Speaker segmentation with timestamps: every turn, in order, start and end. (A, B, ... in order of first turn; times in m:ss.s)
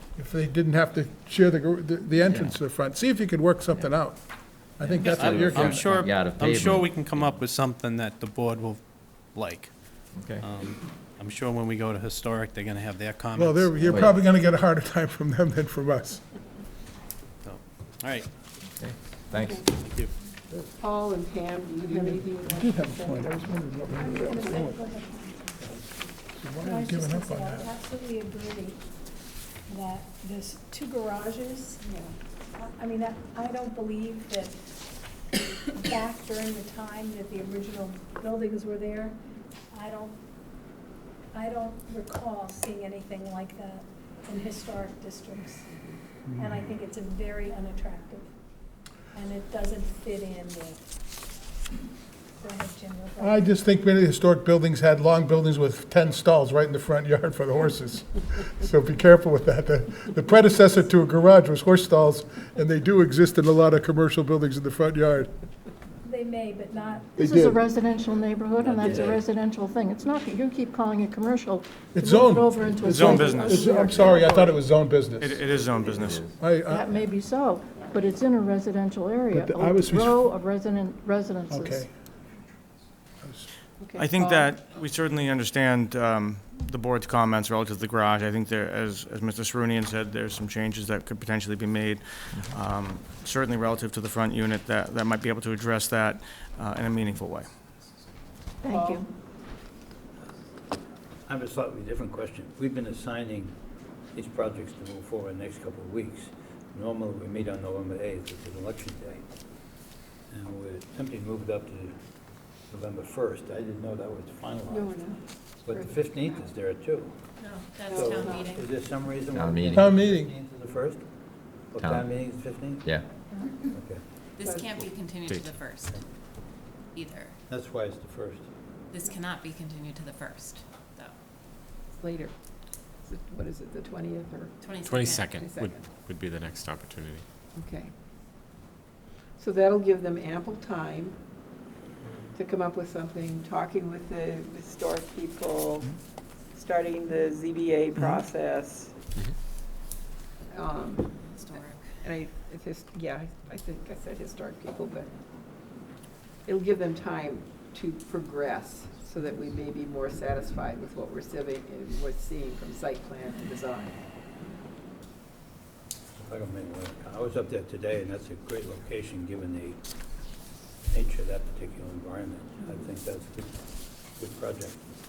0:00.2-0:05.9 A
0:02.3-0:02.6 B
0:04.8-0:07.2 B
0:05.0-0:14.0 C
0:10.1-0:10.4 B
0:13.4-0:16.3 A
0:13.8-0:14.2 B
0:17.4-0:18.3 C
0:18.8-0:19.7 B
0:19.4-0:19.7 D
0:19.8-0:20.1 C
0:20.8-0:23.3 D
0:21.9-0:24.8 A
0:23.9-0:25.7 E
0:26.4-0:27.7 A
0:26.6-0:28.8 E
0:29.7-0:31.8 E
0:31.8-0:32.2 D
0:32.6-0:34.6 E
0:35.7-0:39.2 E
0:39.7-0:40.2 E
0:41.3-0:45.7 E
0:46.3-0:48.3 E
0:49.1-0:50.9 E
0:52.4-0:53.5 E
0:53.2-1:05.3 A
1:06.0-1:07.3 E
1:07.2-1:07.6 A
1:07.9-1:12.2 F
1:08.6-1:09.3 B
1:11.9-1:15.4 A
1:12.2-1:14.6 B
1:12.8-1:14.2 G
1:13.2-1:13.8 F
1:15.2-1:16.3 G
1:15.6-1:17.0 B
1:16.2-1:17.0 A
1:17.3-1:21.7 F
1:17.8-1:18.0 D
1:19.3-1:20.3 A
1:21.5-1:21.9 A
1:23.2-1:23.5 A
1:23.8-1:24.6 D
1:24.0-1:37.5 G
1:38.6-1:39.1 D
1:41.3-1:43.6 H
1:44.1-1:49.3 H
1:50.3-1:52.0 H
1:52.7-1:55.0 H
1:54.7-1:56.4 D
1:55.6-1:57.2 H
1:57.4-1:58.7 I
1:57.8-2:01.1 H
1:57.9-1:58.5 D
1:59.3-1:59.9 B
1:59.7-2:00.3 A
2:01.7-2:02.9 H
2:01.8-2:02.1 B
2:03.7-2:04.0 H
2:04.4-2:06.0 I
2:04.4-2:04.7 D
2:05.2-2:05.7 J
2:05.7-2:06.0 H
2:06.9-2:07.4 I
2:07.5-2:08.5 H
2:08.9-2:11.2 I
2:11.9-2:12.4 D
2:13.0-2:14.7 D
2:14.6-2:15.4 I
2:14.8-2:17.3 J
2:15.3-2:15.9 D
2:17.6-2:17.9 D
2:19.4-2:21.2 D
2:22.3-2:26.0 D
2:26.5-2:29.0 D
2:30.5-2:35.1 D
2:31.2-2:32.0 I
2:36.4-2:44.0 D
2:46.2-2:49.8 H
2:50.9-2:54.9 H